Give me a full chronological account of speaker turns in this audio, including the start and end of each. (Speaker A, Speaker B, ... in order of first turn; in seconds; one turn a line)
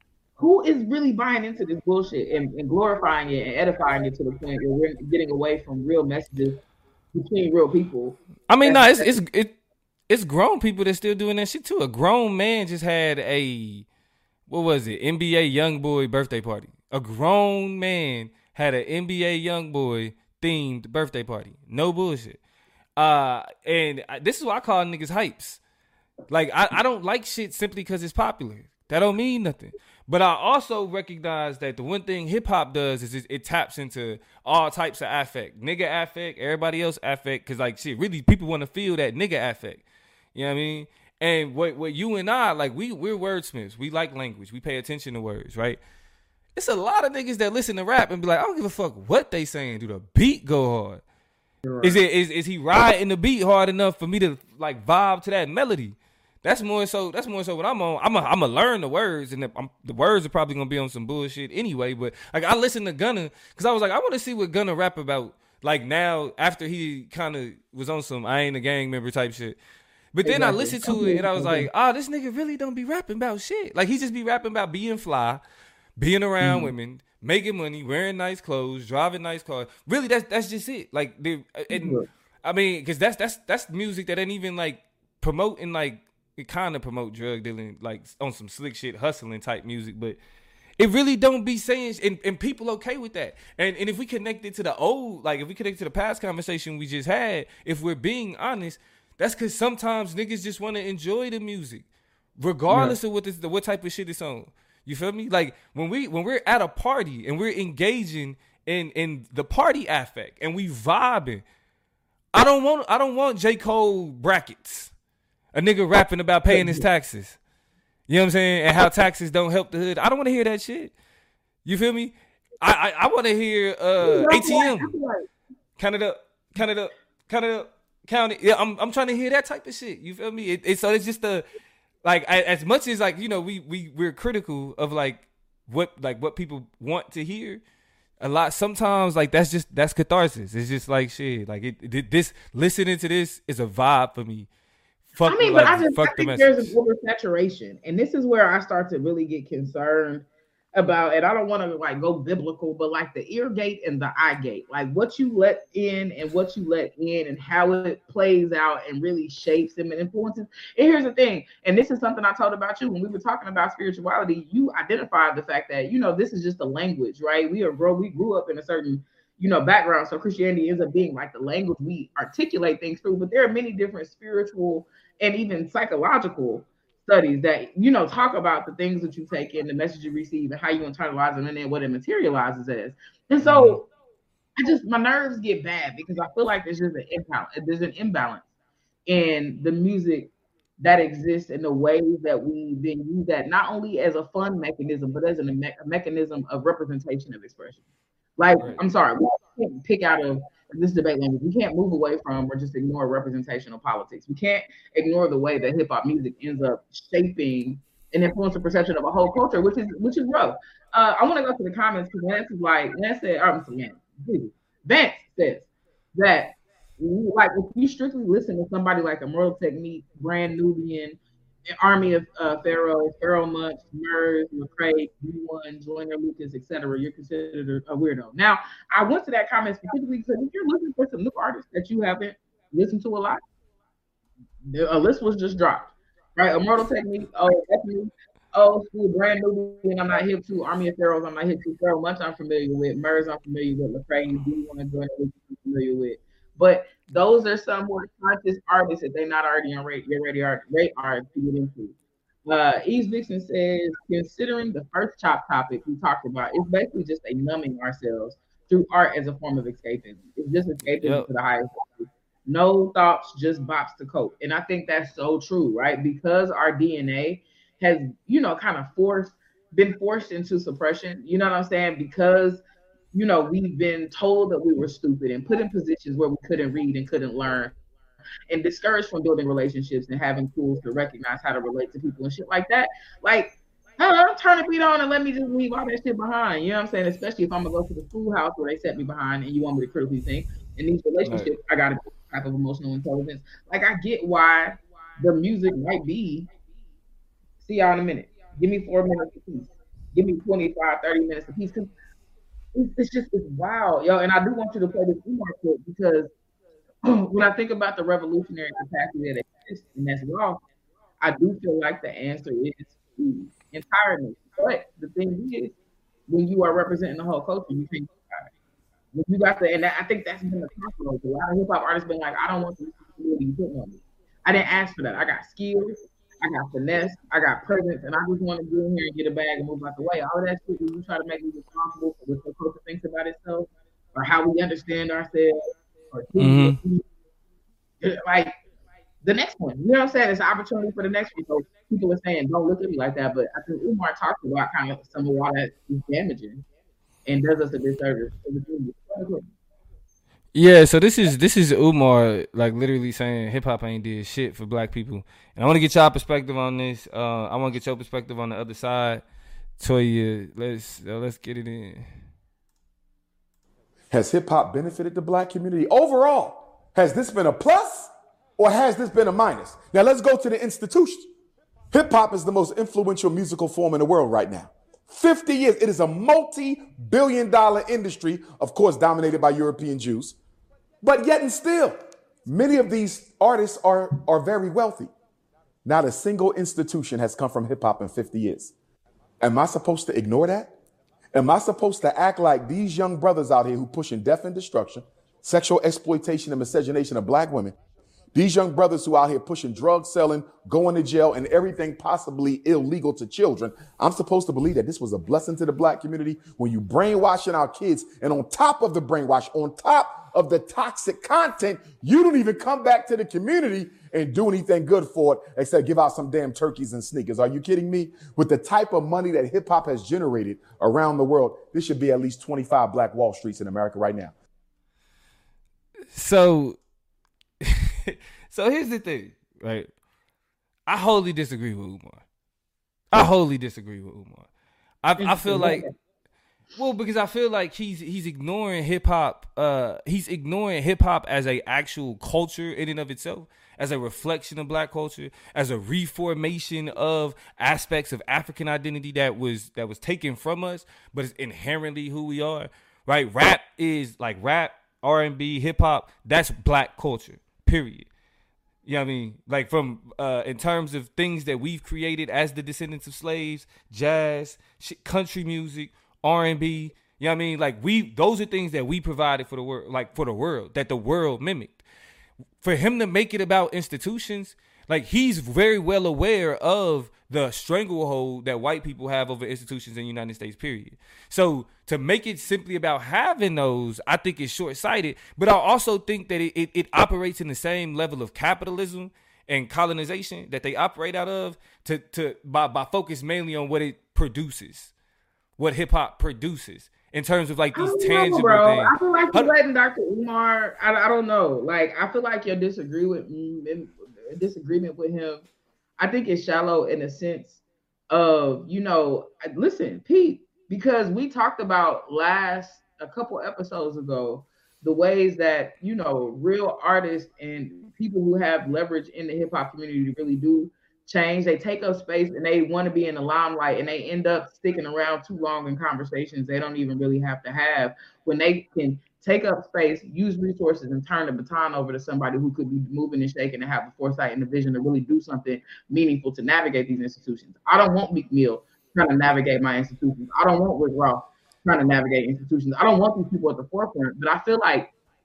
Speaker A: 0.4-6.6
Speaker A: 7.1-9.1
Speaker B: 8.5-9.6
Speaker B: 10.1-13.9
Speaker B: 14.5-22.4
Speaker B: 23.0-25.6
Speaker B: 26.3-39.8
Speaker B: 40.4-45.8
Speaker B: 46.5-51.0
Speaker A: 51.6-52.0
Speaker B: 51.8-69.6
Speaker B: 70.1-75.4
Speaker A: 70.2-71.7
Speaker B: 76.0-90.2
Speaker A: 76.4-76.7
Speaker A: 81.7-82.1
Speaker B: 90.8-101.9
Speaker B: 102.4-111.4
Speaker A: 102.7-103.0
Speaker B: 112.3-114.9
Speaker B: 115.5-117.4
Speaker A: 116.5-116.8
Speaker B: 118.1-120.9
Speaker B: 121.7-124.9
Speaker A: 124.0-125.3
Speaker B: 125.8-131.4
Speaker B: 132.0-137.6
Speaker B: 138.2-144.5
Speaker B: 145.1-146.7
Speaker A: 145.3-183.9
Speaker B: 183.4-183.8
Speaker A: 184.6-188.4
Speaker A: 189.1-197.8
Speaker A: 198.4-221.2
Speaker A: 221.7-233.4
Speaker A: 234.6-272.6
Speaker B: 261.0-261.3
Speaker A: 273.1-277.7
Speaker A: 278.5-296.5
Speaker A: 297.6-301.9
Speaker A: 302.8-306.3
Speaker A: 307.1-310.6
Speaker A: 311.2-315.8
Speaker A: 316.3-318.5
Speaker A: 319.1-337.0
Speaker B: 336.4-336.8
Speaker A: 338.0-338.6
Speaker A: 339.2-346.6
Speaker A: 347.3-349.5
Speaker B: 350.6-359.2
Speaker B: 359.8-362.1
Speaker C: 364.1-371.3
Speaker C: 371.9-380.4
Speaker C: 381.0-385.1
Speaker C: 385.9-388.7
Speaker C: 389.4-390.7
Speaker C: 391.3-397.8
Speaker C: 398.3-424.3
Speaker B: 426.1-426.8
Speaker B: 427.6-429.9
Speaker B: 430.9-432.2
Speaker B: 433.1-434.5
Speaker B: 435.0-435.9
Speaker A: 435.2-435.9
Speaker B: 436.8-458.1
Speaker B: 458.9-471.8
Speaker B: 472.6-494.9
Speaker B: 495.6-499.5
Speaker A: 497.8-505.4
Speaker A: 506.0-544.9